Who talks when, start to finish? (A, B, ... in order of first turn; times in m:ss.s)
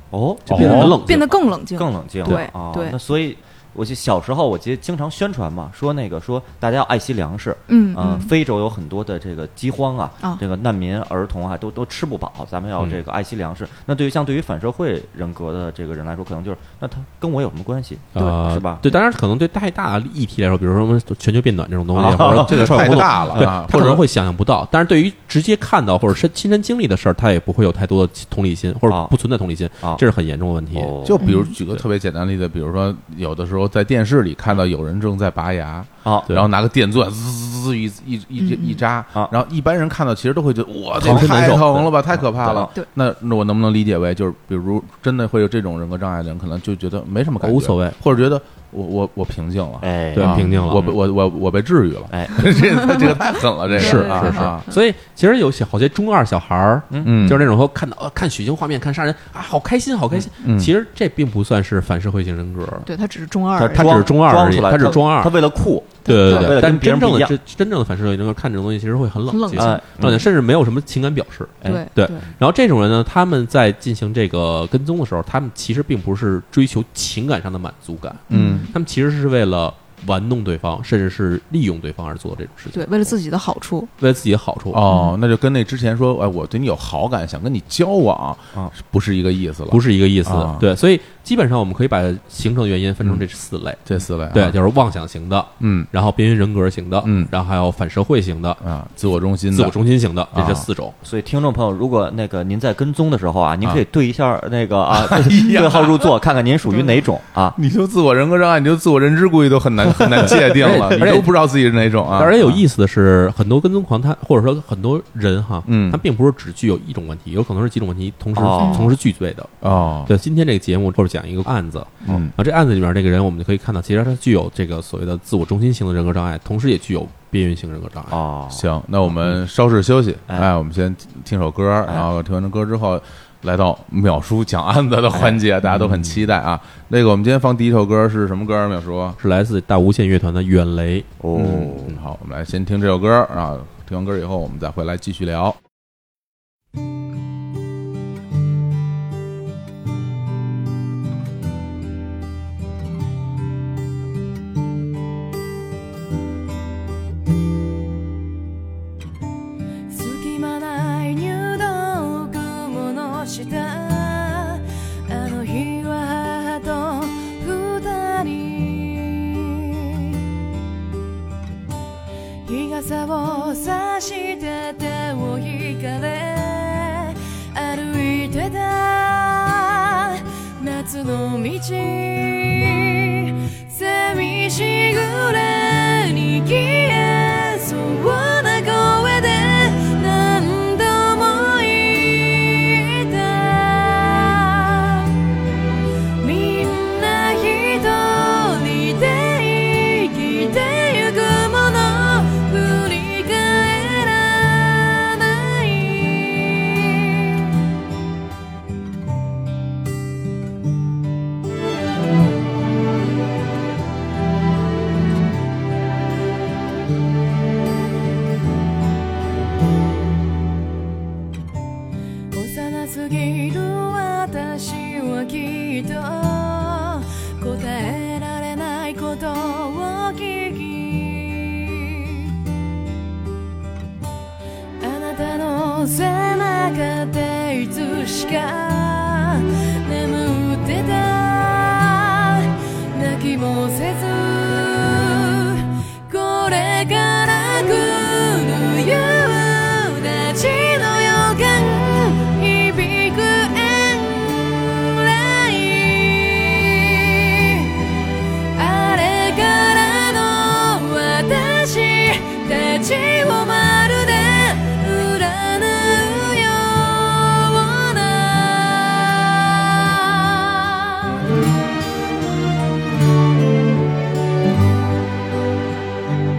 0:00.1-0:18.8 A
0:00.5-0:01.0 B
0:00.5-0:01.3 C
0:00.5-0:03.0 D
0:07.7-0:08.3 D
0:18.1-0:31.0 C
0:18.2-0:19.0 D
0:21.9-0:23.5 A
0:22.0-0:24.0 B
0:28.9-0:29.1 A
0:30.7-0:31.2 A
0:31.0-0:54.6 B
0:31.2-0:31.5 D
0:38.4-0:38.8 D
0:41.0-0:41.9 C
0:42.2-0:42.7 A
0:47.4-0:48.0 C
0:49.8-0:51.0 A
0:50.1-0:50.9 C
0:52.1-0:53.1 A
0:52.8-0:53.1 D
0:53.7-1:02.9 C
0:53.8-0:54.7 D
0:56.9-0:57.2 A
0:57.0-0:57.4 B
1:00.4-1:00.7 B
1:02.8-1:04.0 D
1:03.6-1:07.3 A
1:03.7-1:05.3 C
1:06.0-1:06.5 D
1:06.0-1:23.1 C
1:09.3-1:09.8 D
1:09.6-1:10.2 A
1:11.6-1:12.3 A
1:11.6-1:12.2 D
1:18.3-1:18.7 B
1:18.3-1:18.7 D
1:22.7-1:23.9 D
1:24.0-1:24.8 C
1:24.7-1:30.6 B
1:24.9-1:25.1 D
1:29.7-1:33.8 C
1:33.8-1:34.6 B
1:34.3-1:38.6 C
1:35.6-1:35.9 B
1:37.0-1:37.3 B
1:38.6-1:39.8 B
1:39.5-1:40.9 C
1:40.3-1:40.7 B
1:41.0-1:47.6 A
1:44.9-1:46.1 B
1:46.7-1:47.0 D
1:47.5-1:52.5 B
1:49.9-1:50.8 A
1:50.2-1:51.3 C
1:52.1-1:59.5 C
1:55.6-1:56.0 B
1:58.4-1:58.9 A
1:58.6-1:58.9 D
1:59.6-2:00.1 B
2:00.0-2:08.2 C
2:02.0-2:02.3 B
2:02.0-2:02.3 A
2:08.1-2:08.7 A
2:08.5-2:19.2 B
2:15.1-2:16.2 A
2:19.2-2:21.1 C
2:21.2-2:22.0 A
2:21.3-2:25.6 B
2:39.9-2:50.2 E
2:52.4-3:15.1 E
3:16.2-3:27.2 E
3:42.3-3:52.2 E
3:54.8-4:17.8 E
4:18.6-4:31.0 E